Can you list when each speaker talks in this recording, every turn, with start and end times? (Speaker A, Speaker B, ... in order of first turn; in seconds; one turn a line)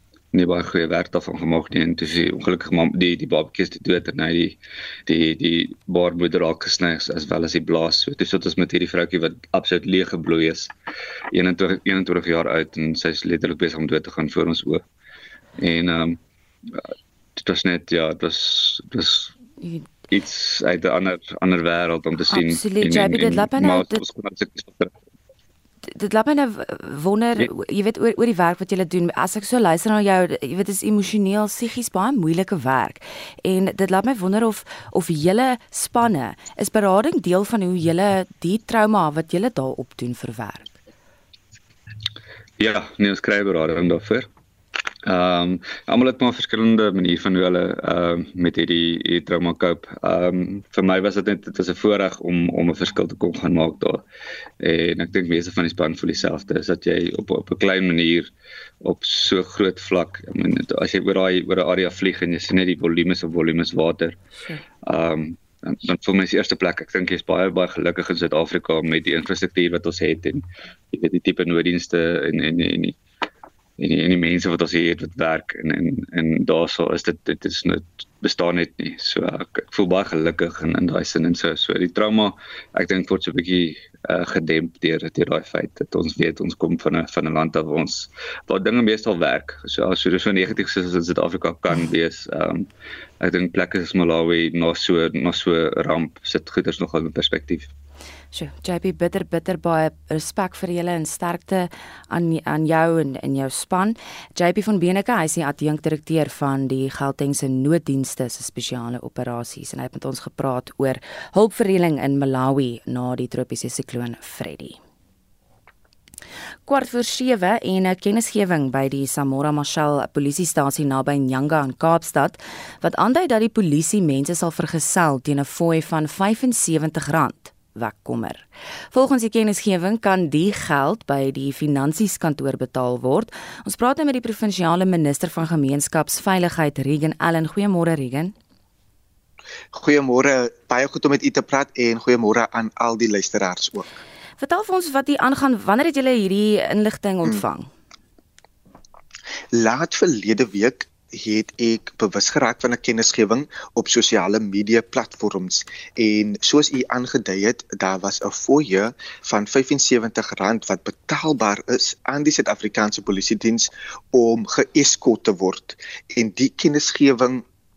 Speaker A: 0.3-10.7
Speaker A: 11.3-14.8
Speaker A: 15.6-16.2
Speaker A: 17.4-19.3
Speaker A: 20.1-24.9
Speaker B: 22.3-24.1
Speaker B: 25.8-40.8
Speaker A: 42.6-44.3
Speaker A: 45.0-54.0
Speaker A: 54.6-58.3
Speaker A: 58.8-64.2
Speaker A: 64.8-73.0
Speaker A: 73.8-92.7
Speaker A: 93.2-97.7
Speaker B: 98.3-114.8
Speaker B: 116.7-138.3
Speaker C: 139.7-144.0
Speaker B: 144.4-147.7
Speaker C: 149.5-167.4